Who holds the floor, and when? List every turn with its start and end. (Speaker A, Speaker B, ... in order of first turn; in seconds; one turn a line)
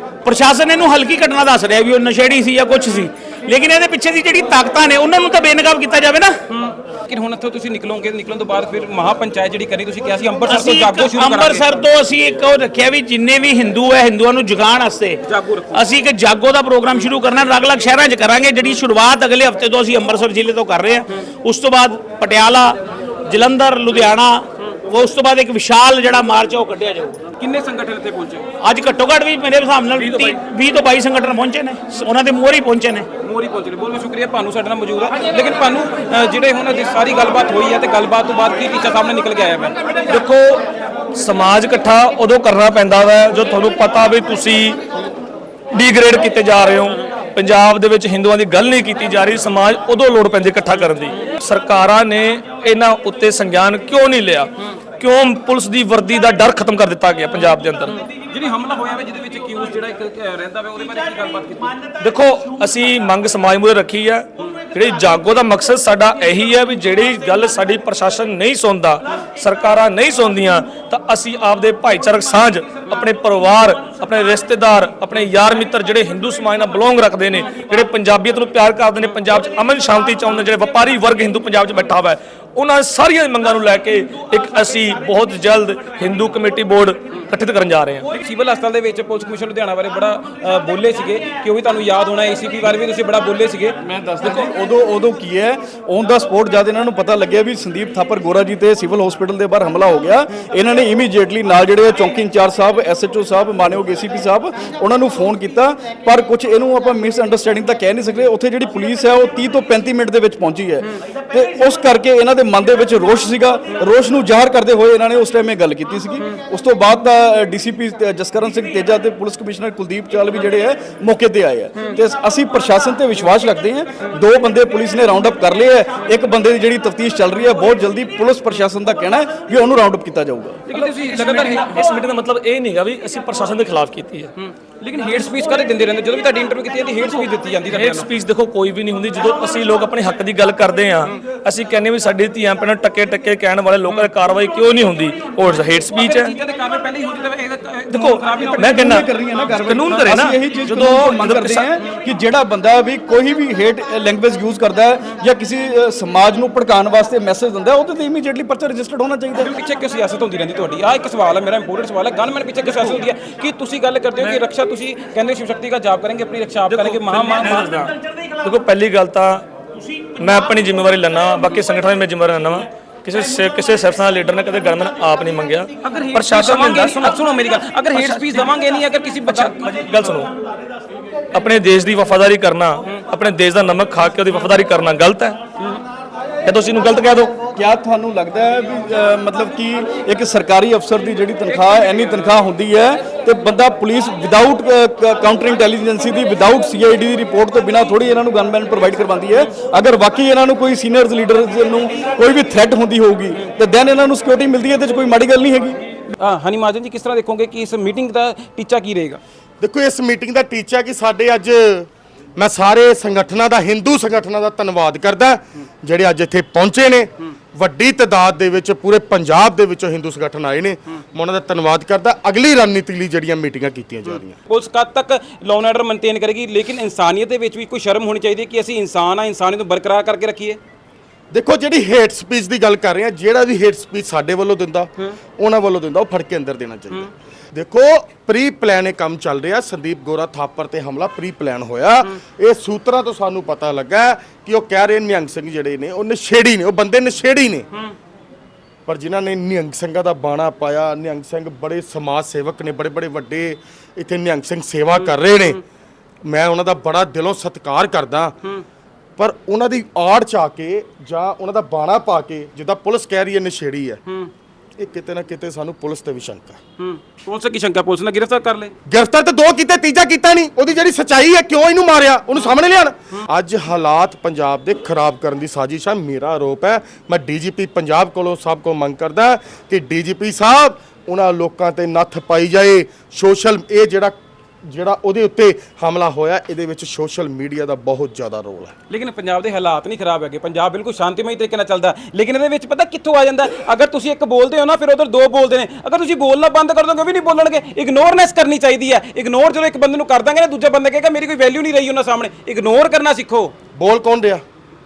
Speaker A: 0.2-6.3
Speaker B: 6.5-11.8
Speaker A: 10.5-15.2
Speaker B: 15.3-15.8
Speaker A: 15.7-27.2
Speaker B: 27.4-28.4
Speaker A: 28.6-33.1
Speaker B: 33.2-39.8
Speaker C: 40.1-40.6
Speaker C: 41.1-44.8
Speaker C: 45.7-58.0
Speaker B: 58.3-61.8
Speaker C: 62.0-88.1
Speaker B: 88.2-93.7
Speaker D: 93.8-130.6
Speaker B: 130.7-131.8
Speaker C: 130.7-134.3
Speaker B: 134.4-138.1
Speaker C: 137.7-146.3
Speaker B: 146.0-148.9
Speaker C: 147.9-151.7
Speaker D: 148.7-159.5
Speaker B: 159.4-167.7
Speaker C: 166.7-169.4
Speaker C: 170.2-177.2
Speaker B: 175.8-179.7
Speaker C: 177.9-178.5
Speaker C: 179.3-180.3
Speaker C: 181.3-185.4
Speaker C: 186.4-187.4
Speaker D: 187.5-205.8
Speaker B: 206.1-209.2
Speaker E: 209.6-224.4
Speaker B: 224.5-230.6
Speaker E: 231.3-247.7
Speaker E: 248.8-255.6
Speaker E: 256.2-258.3
Speaker E: 259.2-264.0
Speaker E: 264.8-266.6
Speaker B: 266.8-268.7
Speaker E: 268.9-288.7
Speaker B: 288.9-303.5
Speaker E: 303.7-304.4